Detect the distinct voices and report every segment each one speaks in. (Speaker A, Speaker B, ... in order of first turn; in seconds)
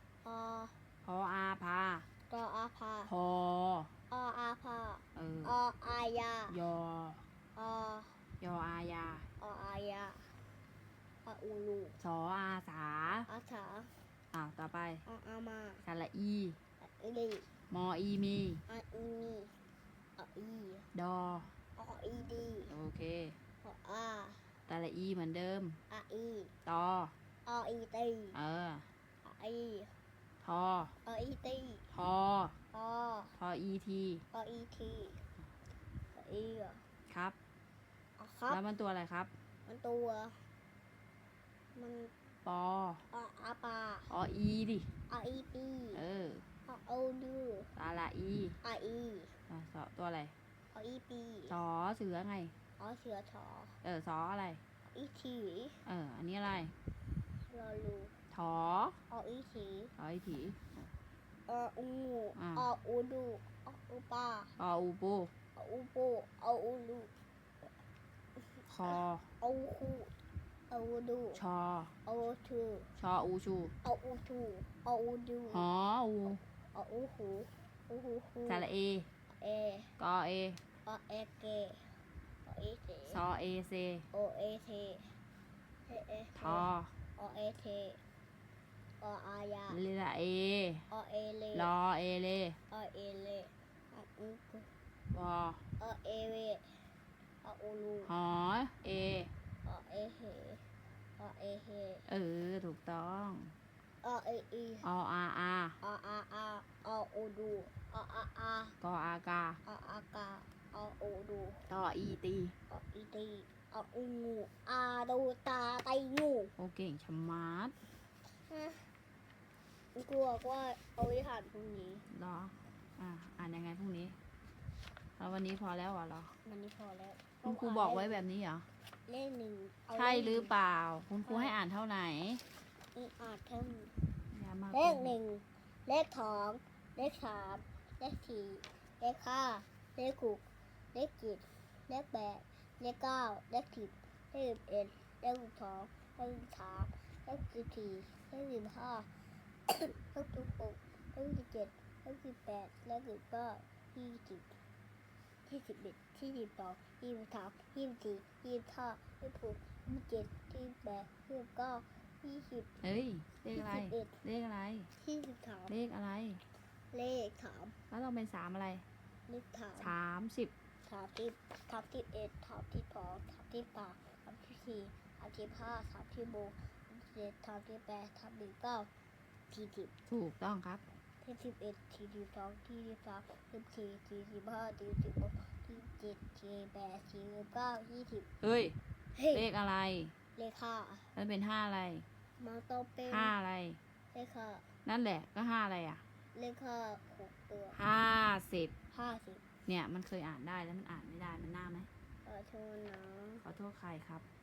Speaker A: 0.2-0.8, 2.3-3.1, 4.1-6.5, 7.5-8.2, 9.4-10.3, 11.2-12.0, 13.3-13.9, 15.1-15.8, 16.8-17.5, 18.7-19.5, 20.2-20.9, 21.8-22.7, 23.6-24.5, 25.9-26.5, 27.4-28.4, 29.2-29.9, 31.0-31.9, 32.7-33.3, 34.3-35.2, 36.1-36.8, 38.2-38.6, 39.6-40.4, 41.7-42.1, 43.1-44.1, 45.1-46.0, 46.6-47.7, 48.6-49.3, 50.7-51.5, 52.8-53.8, 54.9-55.8, 57.5-58.1, 59.1-59.9, 61.5-64.5, 65.5-67.1, 69.4-70.1, 70.7-71.4, 72.0-72.9, 73.8-75.7, 76.7-78.7, 79.3-79.9, 80.8-81.9, 82.5-83.2, 84.1-85.1, 85.9-88.0, 89.0-89.8, 90.9-91.7, 92.7-94.7, 95.8-96.8, 97.4-98.1, 99.6-100.6, 101.2-102.0, 104.0-104.9, 105.8-108.8, 109.6-111.7, 112.7-116.5, 118.5-118.9, 119.9-122.0, 126.4-128.2, 129.1-130.5, 131.2-131.5, 132.9-134.1, 134.7-149.1, 149.7-154.5, 155.4-162.7, 163.5-164.2, 165.0-165.7, 166.9-167.8, 169.3-169.9, 170.8-178.9, 179.5-179.9, 181.2-188.3, 189.1-189.4, 190.3-191.1, 192.4-193.3, 194.1-194.6, 196.3-197.8, 198.9-199.4, 202.2-203.4
Speaker B: 1.0-2.0, 3.1-3.9, 5.1-5.5, 6.5-7.2, 8.4-9.3, 12.0-13.3, 14.3-15.0, 15.8-16.6, 17.7-18.6, 20.9-21.5, 22.7-23.4, 24.7-25.8, 26.6-27.1, 28.3-28.9, 30.4-30.9, 31.9-32.5, 33.4-34.2, 37.1-37.4, 38.5-39.3, 42.4-43.0, 44.1-44.9, 45.9-46.5, 47.7-48.6, 49.5-50.3, 51.5-52.5, 53.8-54.6, 55.8-56.7, 58.3-59.0, 60.0-60.9, 62.4-62.6, 64.6-65.3, 68.7-69.3, 71.3-71.9, 73.0-73.7, 75.5-76.4, 78.5-79.1, 80.0-80.6, 83.1-84.0, 86.4-86.9, 89.7-90.8, 91.5-92.6, 95.1-95.6, 98.0-99.3, 102.1-103.5, 104.8-105.8, 108.8-109.6, 111.7-112.5, 116.6-117.7, 122.1-124.2, 125.2-126.3, 127.4-128.7, 129.9-132.4, 134.3-135.2, 162.8-164.9, 165.7-166.4, 167.9-168.8, 169.8-170.5, 180.1-180.9, 188.4-188.8, 189.3-190.1, 191.1-192.1, 193.1-193.8, 194.8-196.0, 197.7-198.7, 199.7-201.9, 203.4-204.2